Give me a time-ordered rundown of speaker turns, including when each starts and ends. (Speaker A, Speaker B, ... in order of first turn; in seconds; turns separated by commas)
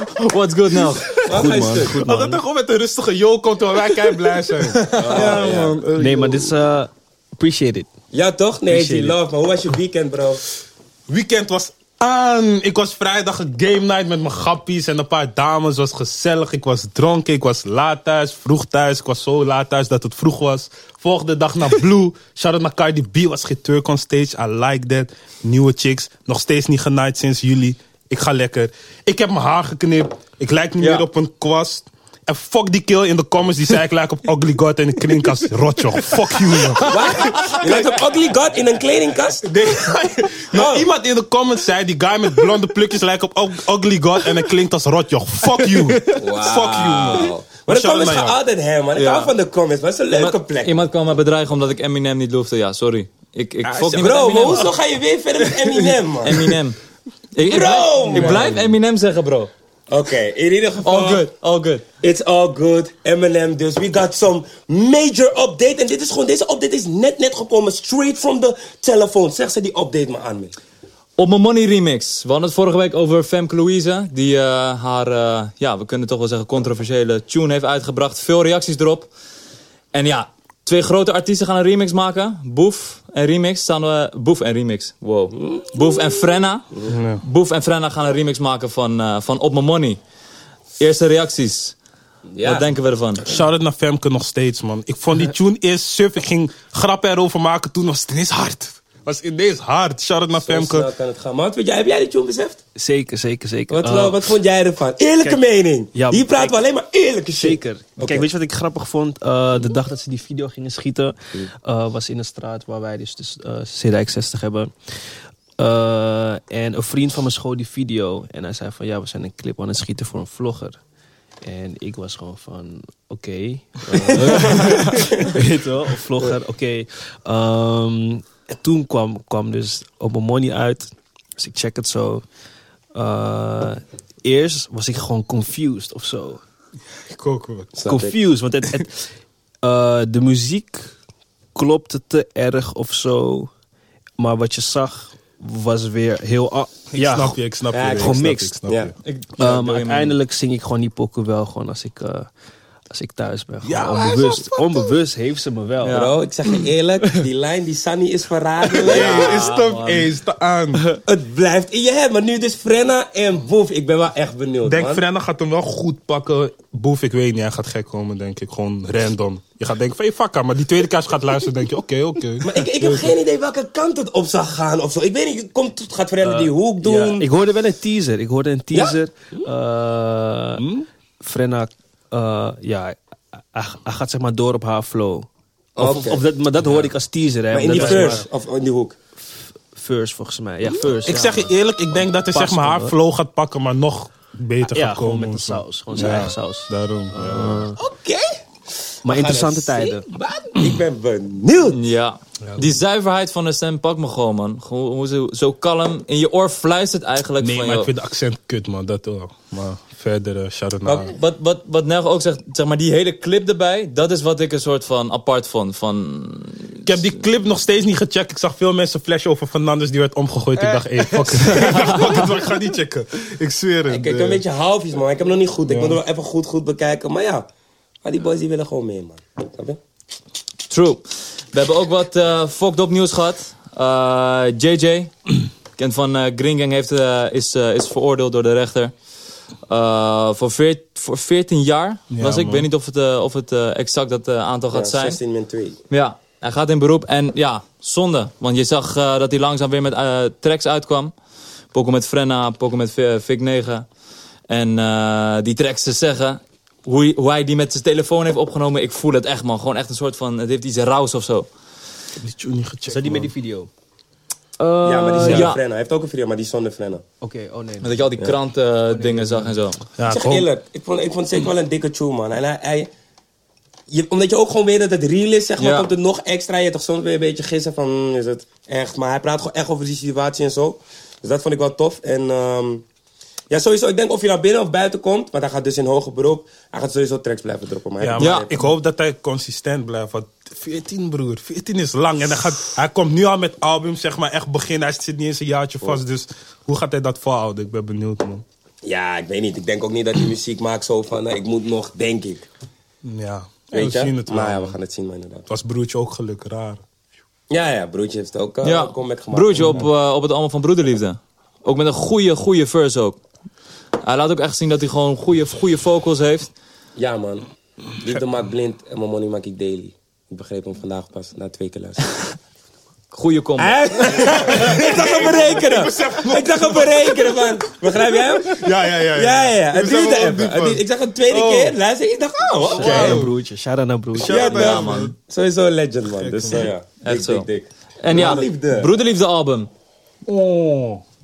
Speaker A: 0.2-1.2, Speaker B: 1.1-2.4, Speaker C: 1.2-2.0, Speaker D: 1.4-6.5, Speaker B: 4.1-7.9, Speaker C: 5.0-5.8, Speaker C: 8.1-10.4, Speaker B: 8.7-9.2, Speaker D: 11.1-37.9, Speaker A: 30.8-31.1, Speaker C: 36.8-39.8, Speaker D: 39.4-48.4, Speaker C: 40.5-40.9, Speaker B: 45.6-46.1, Speaker C: 46.1-50.9, Speaker A: 49.0-49.3, Speaker A: 50.1-54.7, Speaker D: 53.6-54.7, Speaker C: 53.9-56.5, Speaker D: 55.4-55.9, Speaker A: 56.2-56.8, Speaker A: 57.4-59.5, Speaker C: 57.4-58.6, Speaker D: 58.1-58.5, Speaker C: 59.9-61.3, Speaker A: 60.8-61.8, Speaker C: 62.0-70.5, Speaker A: 71.2-79.1, Speaker A: 79.9-90.0, Speaker D: 86.9-87.2, Speaker A: 90.8-91.8, Speaker C: 92.4-92.7, Speaker A: 92.4-93.3, Speaker D: 93.2-100.9, Speaker C: 100.3-102.6, Speaker B: 102.8-104.3, Speaker C: 103.7-108.3, Speaker B: 105.9-106.6, Speaker B: 107.4-114.7, Speaker B: 115.6-120.8, Speaker B: 121.4-132.2, Speaker C: 124.1-125.3, Speaker D: 124.4-124.7, Speaker B: 132.9-136.4, Speaker D: 137.1-137.7, Speaker C: 137.7-138.2, Speaker B: 137.9-139.0, Speaker B: 139.6-140.9, Speaker B: 141.5-143.5, Speaker B: 144.2-147.4, Speaker D: 146.9-148.9, Speaker C: 147.7-148.9, Speaker B: 147.9-148.6, Speaker A: 149.0-150.2, Speaker B: 149.4-152.3, Speaker B: 152.9-156.0, Speaker D: 153.6-155.0, Speaker A: 155.8-156.1, Speaker C: 155.9-159.4, Speaker B: 158.8-160.1, Speaker D: 158.8-160.9, Speaker A: 159.2-159.6, Speaker C: 161.1-165.0, Speaker D: 164.7-173.1, Speaker C: 172.4-177.3, Speaker B: 176.2-180.7, Speaker C: 178.7-179.0, Speaker D: 180.6-180.9, Speaker B: 181.2-183.0, Speaker B: 183.5-188.2, Speaker C: 185.8-186.2, Speaker D: 186.6-186.9, Speaker C: 187.5-189.0, Speaker D: 187.7-188.2, Speaker B: 189.2-192.9, Speaker D: 191.0-197.7, Speaker B: 194.7-197.8, Speaker C: 197.8-198.3, Speaker B: 199.1-200.1, Speaker C: 199.1-201.8, Speaker A: 201.7-207.9, Speaker D: 207.4-211.1, Speaker A: 210.9-216.9, Speaker D: 216.8-224.4, Speaker A: 221.7-222.2, Speaker C: 221.7-222.1, Speaker C: 223.9-227.5, Speaker D: 225.7-226.0, Speaker C: 228.0-229.8, Speaker A: 230.7-235.1, Speaker A: 235.8-238.9, Speaker A: 239.7-245.2, Speaker D: 242.1-242.7, Speaker C: 244.7-245.8, Speaker A: 245.9-251.1, Speaker A: 251.7-253.8, Speaker A: 254.5-261.5, Speaker D: 262.2-263.3, Speaker B: 262.9-263.7, Speaker B: 264.6-265.5, Speaker C: 264.8-267.0, Speaker A: 265.2-265.6, Speaker B: 267.2-268.1, Speaker A: 267.8-269.8, Speaker B: 268.9-269.5, Speaker D: 270.0-270.5, Speaker C: 270.1-272.9, Speaker C: 273.9-282.8, Speaker A: 275.6-275.9, Speaker C: 283.5-288.7, Speaker D: 288.0-298.4, Speaker A: 288.2-288.5, Speaker C: 298.9-302.4, Speaker D: 303.0-304.8, Speaker C: 303.7-305.5, Speaker D: 305.5-306.8, Speaker C: 307.5-309.9, Speaker A: 308.6-313.2, Speaker A: 314.0-316.5, Speaker C: 317.0-317.4, Speaker C: 318.0-322.1, Speaker A: 323.1-324.4, Speaker C: 323.6-333.3, Speaker D: 324.2-331.8, Speaker D: 332.4-333.4, Speaker B: 332.6-334.9, Speaker D: 334.2-335.1, Speaker C: 334.2-338.9, Speaker A: 334.5-335.1, Speaker D: 336.2-336.7, Speaker A: 337.0-337.5, Speaker A: 338.0-339.7, Speaker D: 340.3-341.0